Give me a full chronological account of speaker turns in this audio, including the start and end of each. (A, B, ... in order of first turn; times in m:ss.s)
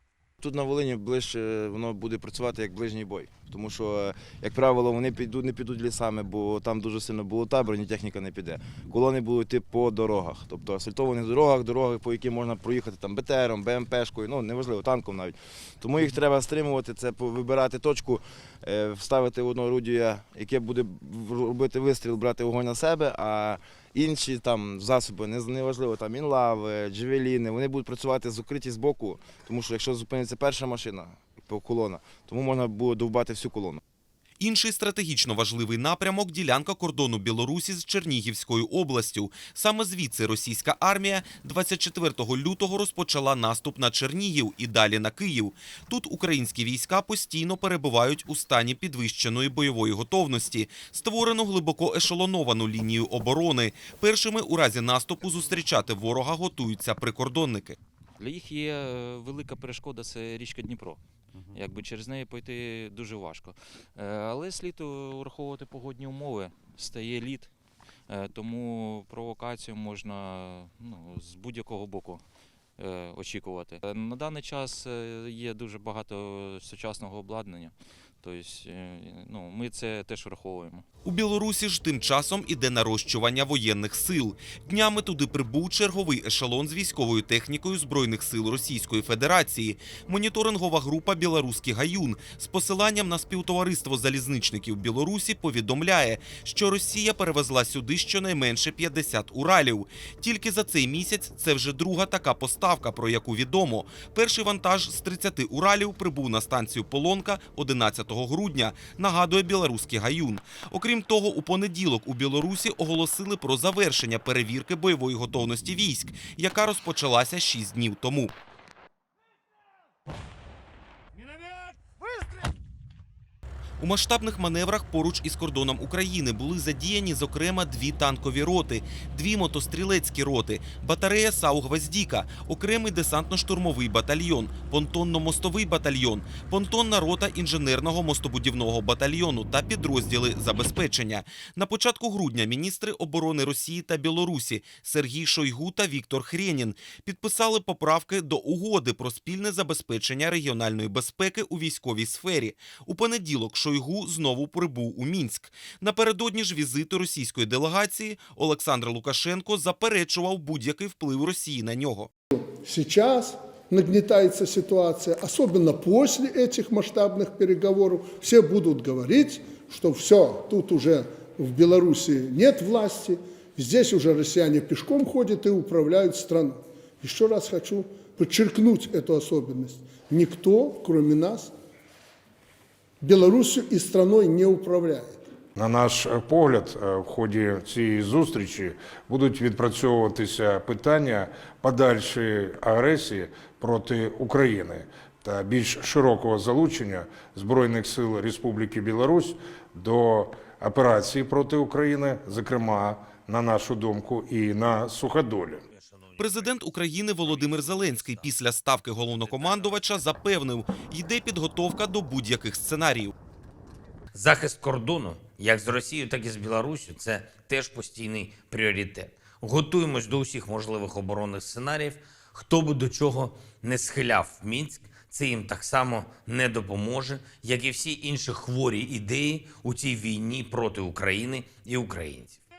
0:00.4-0:33.8 A
0:34.4-0:57.8 B
0:58.2-1:01.0 C
1:01.5-1:07.5 C
1:08.1-1:12.2 C
1:12.8-1:20.8 C
1:21.0-1:58.3 B
2:03.8-2:42.1 B
2:42.4-3:01.5 D
3:03.0-3:05.2 D
3:05.6-3:25.7 E
3:25.7-3:26.6 F
3:26.2-3:33.1 B
3:27.2-3:28.3 F
3:29.0-3:29.7 F
3:34.1-3:52.4 F